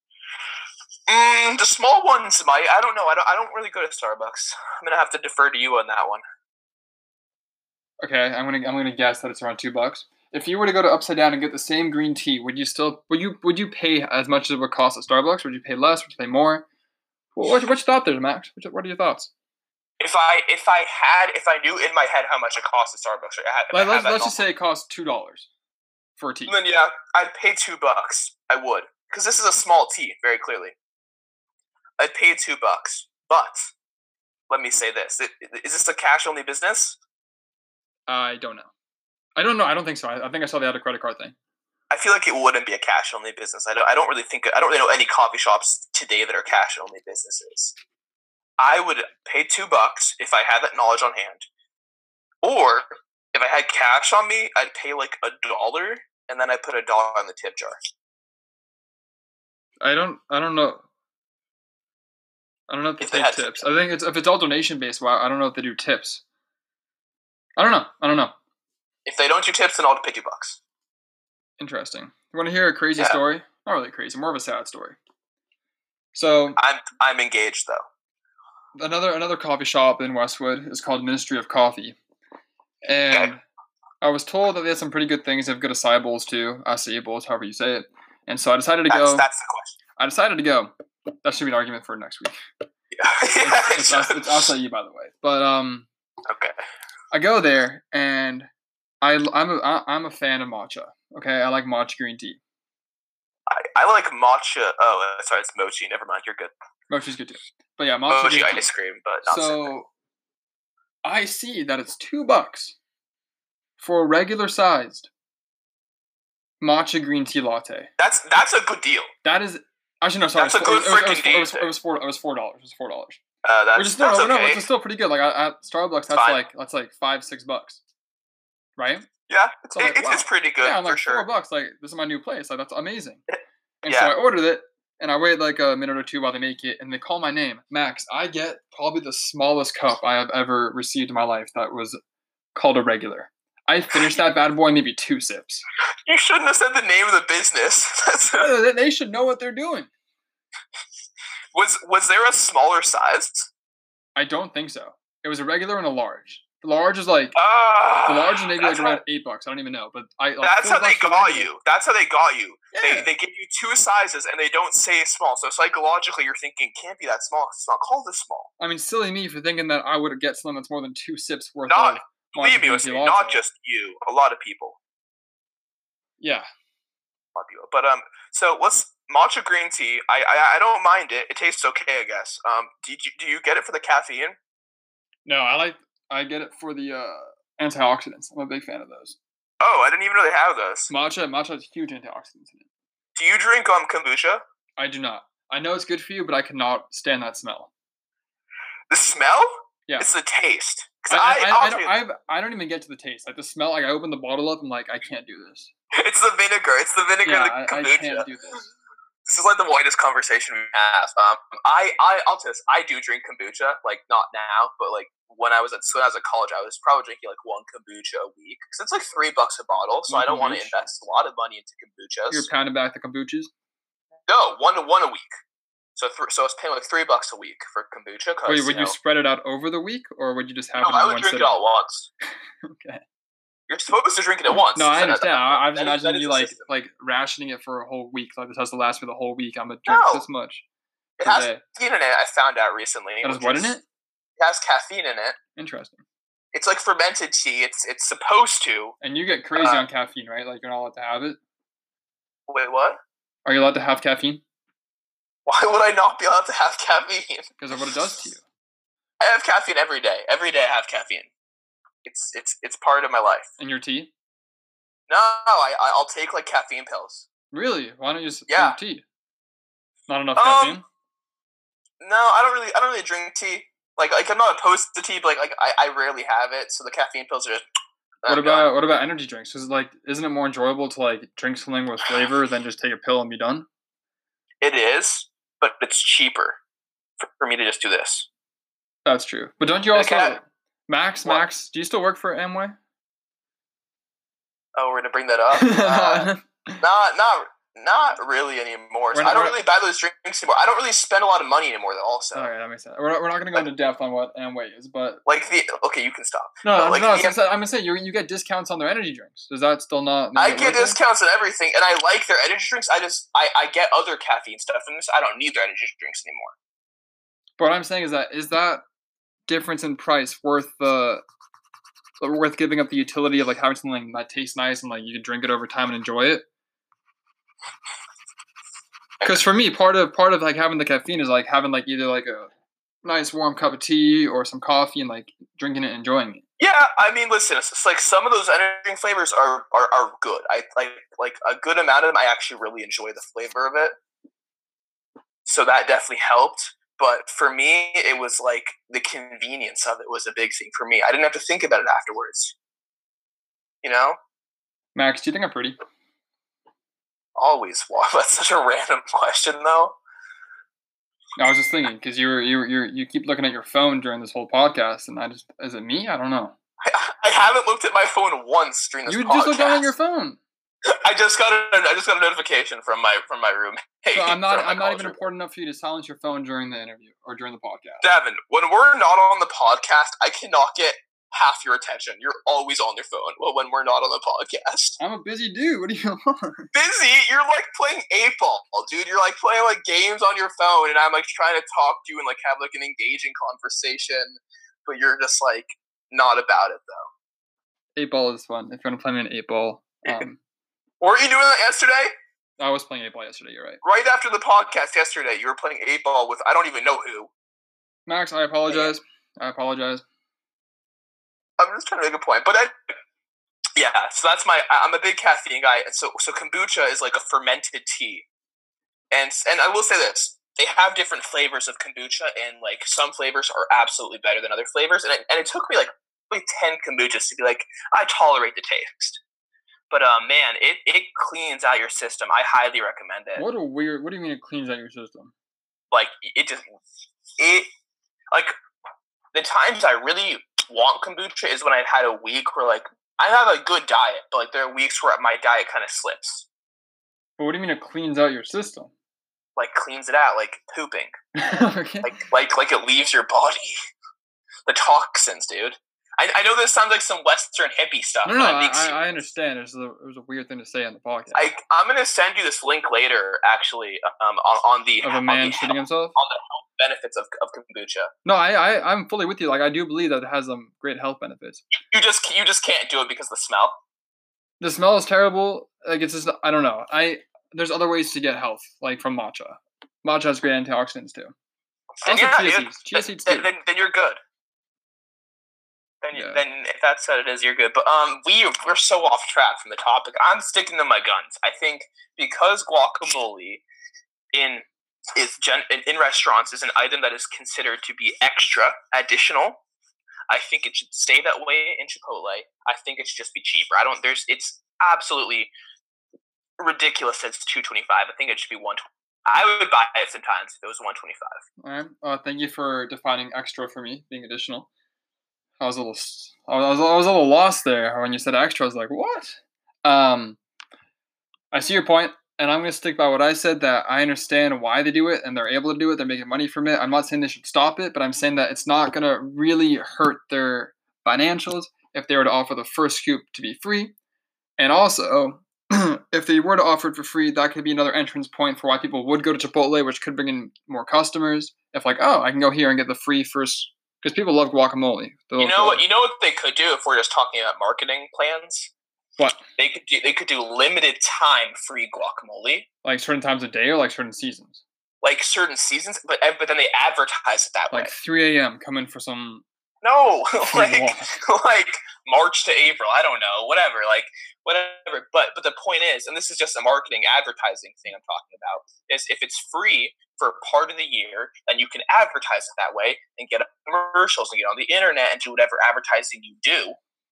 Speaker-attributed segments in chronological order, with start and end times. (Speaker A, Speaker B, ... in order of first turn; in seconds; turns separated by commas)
Speaker A: 1.1-6.2, Speaker B: 8.0-16.6, Speaker B: 17.4-19.3, Speaker A: 20.0-24.4, Speaker B: 23.7-25.5, Speaker B: 26.2-26.6, Speaker A: 26.5-30.7, Speaker A: 32.0-33.7, Speaker A: 34.5-37.0, Speaker B: 38.1-38.7, Speaker B: 39.4-41.3, Speaker A: 41.9-47.8, Speaker A: 48.6-51.5, Speaker A: 52.4-57.8, Speaker B: 59.8-60.8, Speaker B: 62.7-66.2, Speaker A: 63.0-63.6, Speaker B: 67.6-68.3, Speaker A: 69.0-70.6, Speaker B: 71.6-75.0, Speaker B: 76.1-76.6, Speaker A: 76.6-77.8, Speaker B: 78.8-82.0, Speaker B: 82.8-83.4, Speaker B: 84.0-89.3, Speaker A: 88.9-89.8, Speaker B: 90.0-90.7, Speaker B: 91.2-92.3, Speaker A: 92.9-94.5, Speaker B: 93.4-95.9, Speaker A: 96.3-96.5, Speaker B: 97.1-98.5, Speaker B: 99.0-102.4, Speaker A: 103.5-106.5, Speaker B: 106.9-108.7, Speaker A: 108.1-109.7, Speaker B: 109.2-109.9, Speaker B: 111.0-112.8, Speaker B: 113.8-115.1, Speaker B: 116.6-117.9, Speaker A: 118.0-119.1, Speaker B: 119.2-123.2, Speaker A: 120.3-121.7, Speaker A: 123.4-124.6, Speaker B: 123.7-127.8, Speaker A: 126.1-126.4, Speaker B: 128.8-129.1, Speaker A: 129.3-131.2, Speaker B: 129.7-133.2, Speaker B: 133.8-142.0, Speaker A: 133.8-134.1, Speaker B: 142.5-145.6, Speaker A: 146.1-148.5, Speaker B: 148.4-149.9, Speaker A: 151.5-153.5, Speaker B: 154.2-157.4, Speaker A: 157.3-159.0, Speaker B: 158.1-161.5, Speaker A: 160.4-168.5, Speaker B: 162.7-163.1, Speaker B: 168.6-173.4, Speaker A: 171.7-174.8, Speaker B: 176.2-176.4, Speaker A: 177.3-184.4, Speaker B: 185.2-189.2, Speaker A: 189.6-190.9, Speaker B: 190.9-192.7, Speaker A: 193.1-194.4, Speaker B: 194.8-197.7, Speaker A: 198.9-202.0, Speaker B: 201.1-205.7, Speaker A: 205.9-208.3, Speaker B: 207.2-208.7, Speaker A: 209.3-222.5, Speaker B: 220.1-220.8, Speaker B: 222.3-223.5, Speaker A: 224.3-225.3, Speaker A: 225.9-228.9, Speaker B: 228.4-231.6, Speaker A: 230.8-232.1, Speaker B: 232.6-233.0, Speaker A: 233.7-236.7, Speaker B: 234.7-240.6, Speaker A: 239.9-240.2, Speaker A: 241.2-243.7, Speaker B: 241.2-241.6, Speaker B: 243.2-243.8, Speaker A: 244.4-245.4, Speaker B: 245.6-246.0, Speaker A: 246.5-248.9, Speaker B: 249.0-251.4, Speaker A: 249.6-249.8, Speaker A: 252.5-253.0, Speaker B: 253.4-254.4, Speaker A: 255.4-257.5, Speaker B: 257.6-258.4, Speaker A: 259.2-261.3, Speaker A: 262.0-263.5, Speaker B: 263.6-264.1, Speaker A: 265.1-267.3, Speaker B: 267.5-269.0, Speaker A: 268.5-268.8, Speaker B: 270.1-270.8, Speaker A: 270.4-270.8, Speaker A: 272.0-277.6, Speaker A: 278.2-278.7, Speaker B: 278.2-283.7, Speaker A: 284.6-286.6, Speaker A: 287.2-288.3, Speaker B: 289.0-292.8, Speaker A: 289.9-290.4, Speaker A: 294.7-302.5, Speaker B: 295.5-296.8, Speaker B: 299.1-299.6, Speaker B: 302.3-305.2, Speaker A: 305.2-307.4, Speaker B: 306.6-311.0, Speaker A: 310.4-316.5, Speaker B: 317.6-318.8, Speaker B: 319.5-321.2, Speaker B: 322.2-326.4, Speaker B: 329.2-332.5, Speaker B: 333.0-336.4, Speaker A: 336.6-343.9, Speaker A: 345.4-352.5, Speaker A: 353.8-354.2, Speaker B: 354.9-355.8, Speaker A: 357.4-359.9, Speaker B: 361.4-366.6, Speaker A: 366.8-369.9, Speaker B: 369.1-370.4, Speaker A: 370.8-375.2, Speaker B: 374.1-378.0, Speaker A: 378.0-385.0, Speaker B: 385.0-386.7, Speaker A: 386.7-397.1, Speaker B: 397.9-400.4, Speaker A: 401.0-402.1, Speaker B: 402.6-403.8, Speaker A: 403.8-407.3, Speaker B: 408.1-410.0, Speaker A: 411.6-412.9, Speaker A: 413.8-418.2, Speaker A: 419.1-429.2, Speaker A: 429.9-433.4, Speaker B: 433.4-435.3, Speaker A: 435.9-436.6, Speaker A: 437.4-437.7, Speaker A: 438.3-438.6, Speaker A: 439.3-446.4, Speaker B: 447.4-448.9, Speaker A: 449.6-451.1, Speaker B: 451.3-452.2, Speaker A: 452.0-453.7, Speaker A: 454.6-459.2, Speaker B: 458.2-461.5, Speaker A: 461.3-468.1, Speaker B: 465.0-466.1, Speaker B: 468.2-471.6, Speaker A: 471.7-473.8, Speaker B: 474.6-481.3, Speaker A: 482.0-484.2, Speaker B: 482.0-483.5, Speaker A: 486.0-493.6, Speaker B: 486.1-486.4, Speaker A: 494.3-499.6, Speaker A: 500.3-505.5, Speaker A: 506.6-511.4, Speaker B: 511.6-514.7, Speaker B: 515.6-520.4, Speaker B: 521.5-533.9, Speaker B: 534.6-545.8, Speaker A: 545.4-548.7, Speaker A: 549.6-552.7, Speaker B: 552.8-554.6, Speaker A: 555.0-557.9, Speaker B: 557.7-559.4, Speaker A: 559.8-576.8, Speaker B: 560.5-561.1